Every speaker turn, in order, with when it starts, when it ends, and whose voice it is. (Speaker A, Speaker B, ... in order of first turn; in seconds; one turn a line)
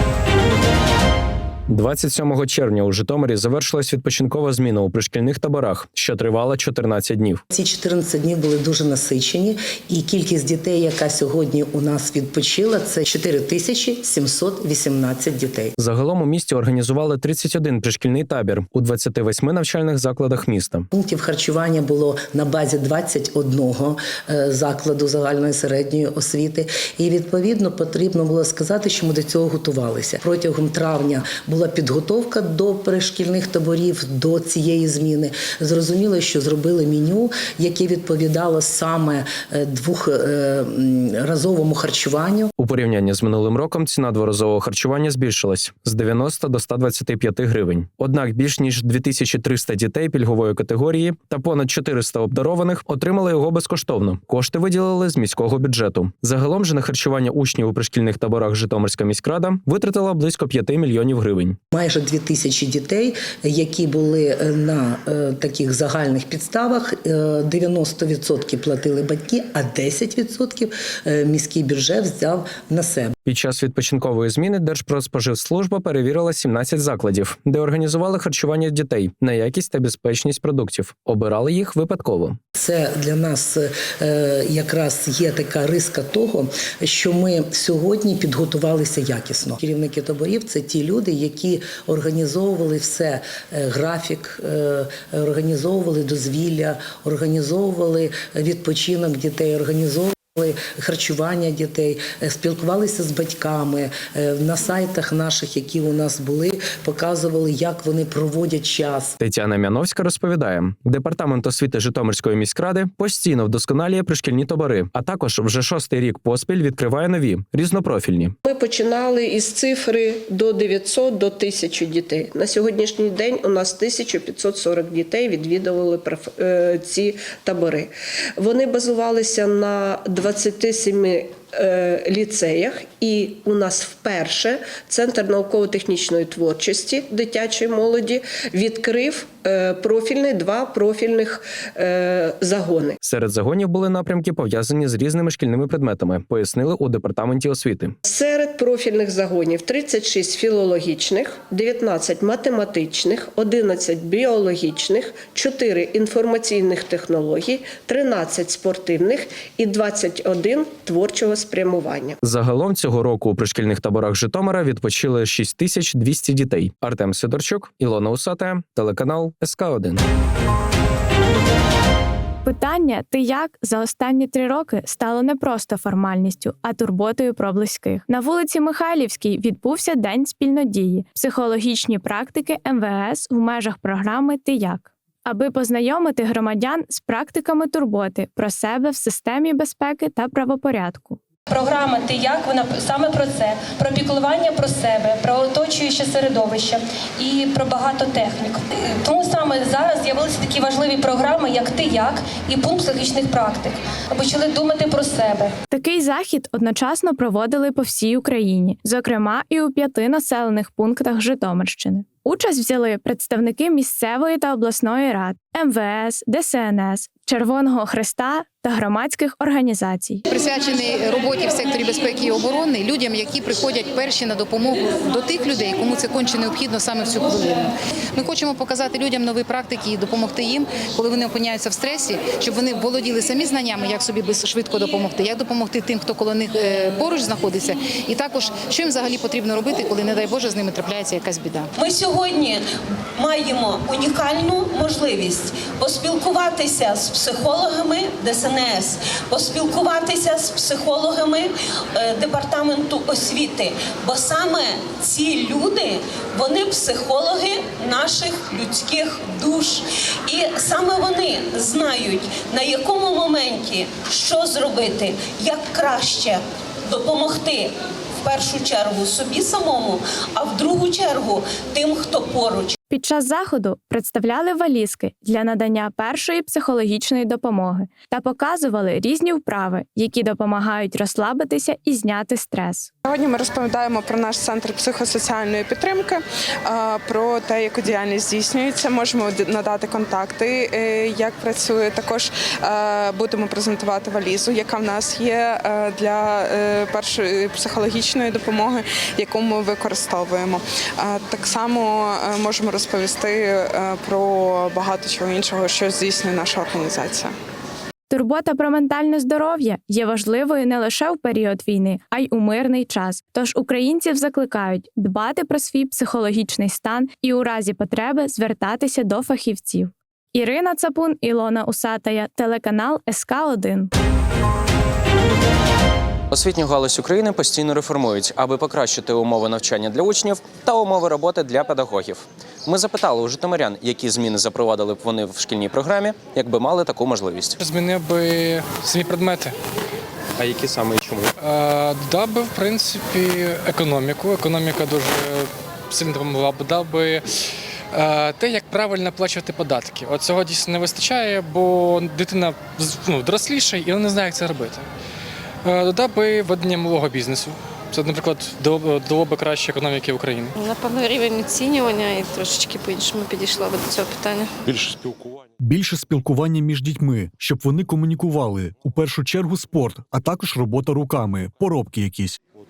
Speaker A: 1.7-7.4
Speaker B: 7.5-15.7
Speaker A: 15.8-20.9
Speaker B: 20.9-42.5
Speaker A: 42.6-61.6
Speaker B: 61.7-73.1
Speaker A: 73.2-82.4
Speaker B: 82.5-109.1
Speaker A: 109.2-118.3
Speaker C: 118.5-143.0
Speaker A: 143.0-147.9
Speaker C: 148.1-162.2
Speaker A: 162.2-170.0
Speaker D: 172.4-191.2
Speaker E: 191.8-196.6
Speaker E: 197.7-198.4
Speaker E: 199.2-203.4
Speaker E: 204.6-205.2
Speaker D: 205.7-220.2
Speaker F: 220.3-241.7
Speaker G: 241.8-242.6
Speaker G: 243.2-267.7
Speaker G: 268.2-272.7
Speaker D: 272.9-282.9
Speaker H: 283.1-286.2
Speaker H: 286.7-307.3
Speaker D: 308.1-323.9
Speaker A: 326.3-337.6
Speaker I: 337.6-339.5
Speaker A: 340.4-341.3
Speaker I: 341.4-347.2
Speaker I: 347.9-354.9
Speaker I: 355.6-360.5
Speaker J: 360.7-364.5
Speaker K: 365.6-372.4